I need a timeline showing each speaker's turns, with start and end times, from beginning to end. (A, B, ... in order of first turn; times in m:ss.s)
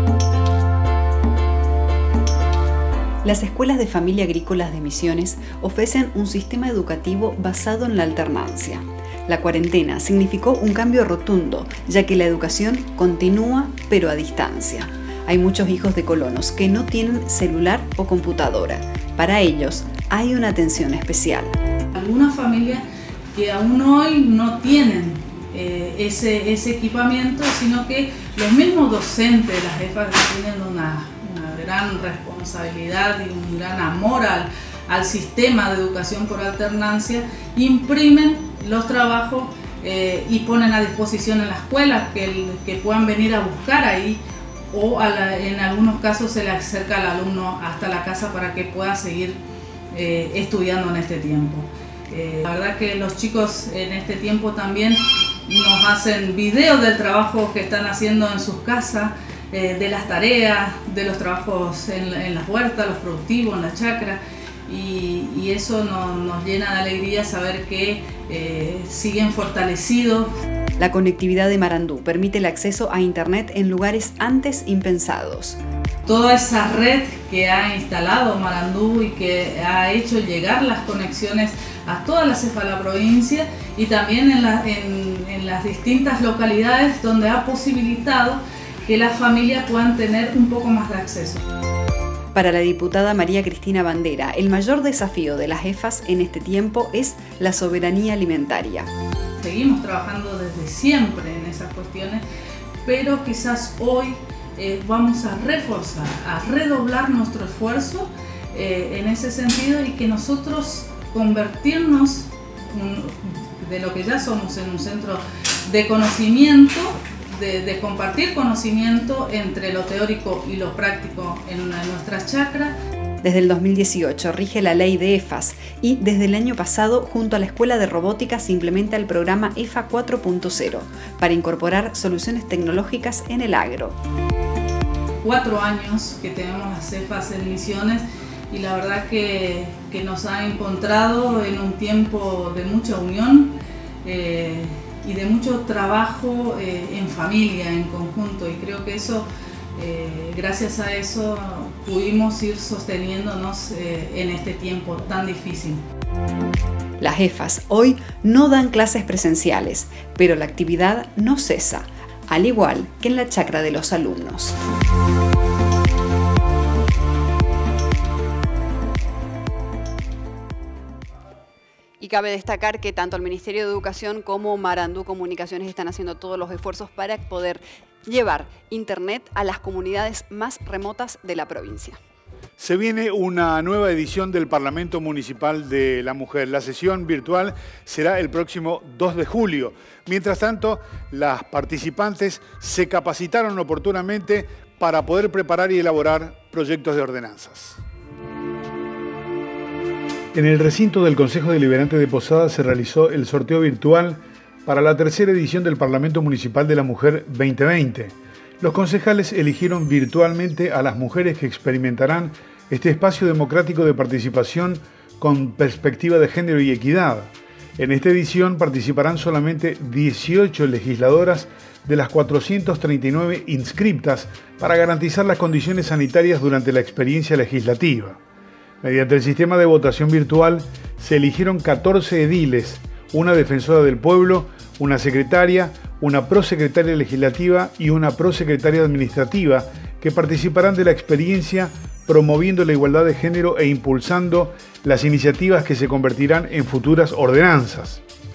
0:03.2-0:21.5 A
0:22.0-0:22.8 B
0:23.3-0:44.2 B
0:44.7-0:49.4 B
0:49.9-1:10.3 B
1:10.8-1:15.6 A
1:16.1-1:31.4 B
1:32.4-1:38.9 A
1:39.4-1:42.2 B
1:42.8-2:02.8 B
2:03.2-2:14.0 A
2:15.2-2:23.5 B
2:24.0-2:35.8 B
2:37.0-2:44.6 A
2:52.0-3:02.0 A
3:02.6-3:17.8 C
3:20.3-3:48.2 C
3:48.8-4:08.0 C